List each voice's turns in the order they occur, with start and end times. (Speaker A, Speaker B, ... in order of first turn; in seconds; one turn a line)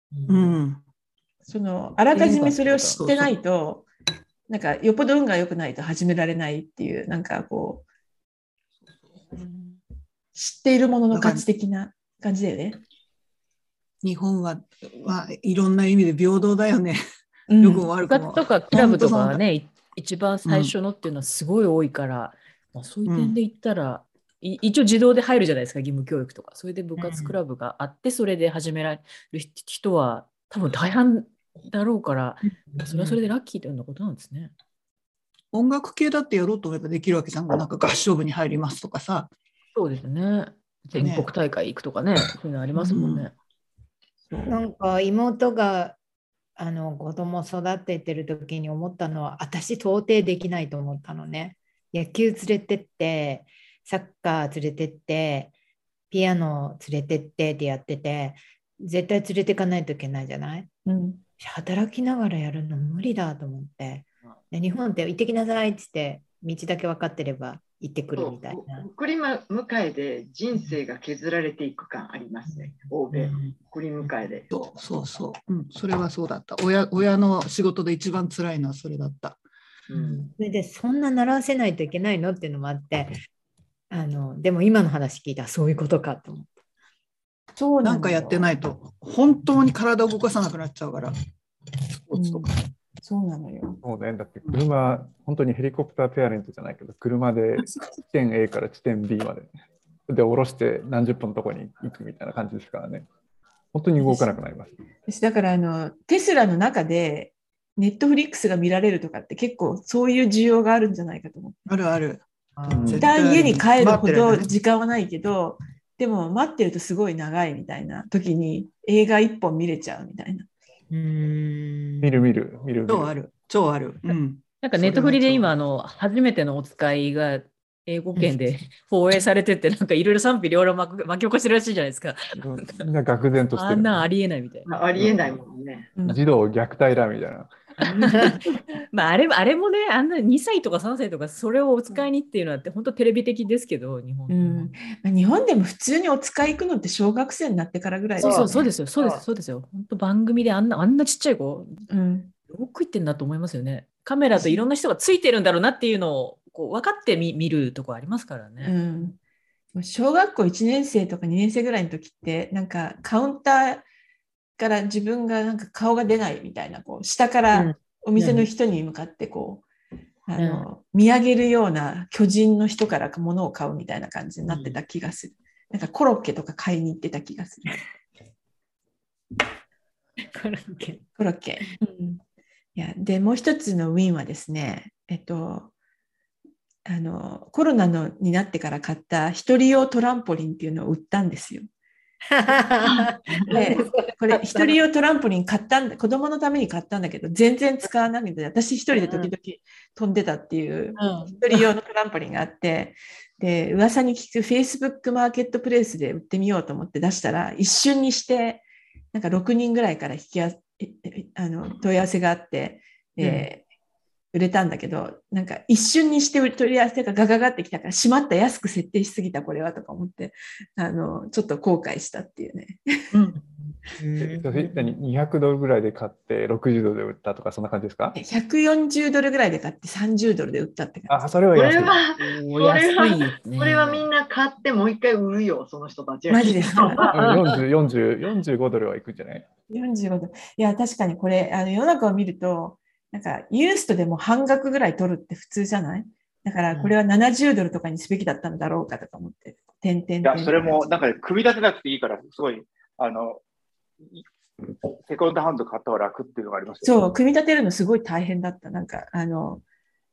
Speaker A: 0.1-0.6
Speaker B: 0.3-0.8
Speaker C: 1.5-3.9
Speaker D: 2.1-3.0
Speaker B: 2.9-3.3
Speaker C: 4.5-7.8
Speaker B: 9.1-9.8
Speaker C: 10.3-12.8
Speaker B: 11.1-11.4
Speaker B: 14.0-17.0
Speaker C: 17.5-17.9
Speaker B: 17.6-19.4
Speaker D: 18.0-34.5
Speaker B: 20.4-20.7
Speaker B: 23.1-23.4
Speaker A: 27.0-27.3
Speaker B: 35.5-39.3
Speaker D: 39.7-43.3
Speaker B: 41.0-41.3
Speaker B: 42.8-43.3
Speaker A: 44.5-46.0
Speaker A: 46.5-55.5
Speaker A: 56.1-60.7
Speaker C: 60.9-61.2
Speaker A: 61.4-68.8
Speaker E: 68.2-74.5
Speaker A: 72.5-73.5
Speaker B: 74.5-79.4
Speaker E: 79.9-80.3
Speaker A: 79.9-83.1
Speaker A: 83.9-86.5
Speaker C: 87.6-88.5
Speaker B: 87.8-91.1
Speaker B: 92.1-92.4
Speaker C: 92.1-92.5
Speaker C: 93.0-93.8
Speaker F: 93.8-99.5
Speaker F: 100.1-103.1
Speaker F: 103.7-104.7
Speaker C: 105.1-111.6
Speaker B: 111.7-112.2
Speaker A: 112.6-113.0
Speaker F: 112.7-113.1
Speaker B: 112.8-114.5
Speaker C: 113.0-120.5
Speaker A: 120.9-122.3
Speaker F: 122.0-123.1
Speaker B: 122.8-125.5
Speaker D: 124.6-132.8
Speaker F: 132.4-134.1
Speaker D: 133.5-134.7
Speaker E: 134.7-135.9
Speaker F: 134.9-135.3
Speaker F: 136.0-137.6
Speaker D: 137.8-138.4
Speaker D: 138.9-144.7
Speaker C: 144.3-148.7
Speaker D: 148.2-151.8
Speaker A: 148.2-149.2
Speaker C: 151.9-152.3
Speaker D: 152.5-158.7
Speaker C: 158.6-159.2
Speaker C: 159.7-163.8
Speaker C: 164.6-169.6
Speaker A: 167.5-168.5
Speaker C: 170.3-177.7
Speaker A: 170.4-170.6
Speaker A: 174.5-174.8
Speaker A: 180.3-181.0
Speaker C: 181.2-182.2
Speaker C: 182.8-185.7
Speaker C: 186.8-191.7
Speaker A: 192.3-194.8
Speaker E: 192.9-193.6
Speaker C: 193.5-213.6
Speaker A: 198.9-199.3
Speaker A: 201.0-201.6
Speaker C: 214.3-223.0
Speaker E: 223.1-223.4
Speaker A: 223.9-224.9
Speaker F: 224.2-228.2
Speaker C: 228.1-231.3
Speaker F: 231.1-232.0
Speaker E: 231.5-237.6
Speaker D: 232.2-234.1
Speaker C: 236.3-237.2
Speaker F: 237.1-239.5
Speaker C: 239.7-250.8
Speaker G: 250.2-253.4
Speaker G: 254.9-257.0
Speaker C: 256.8-259.6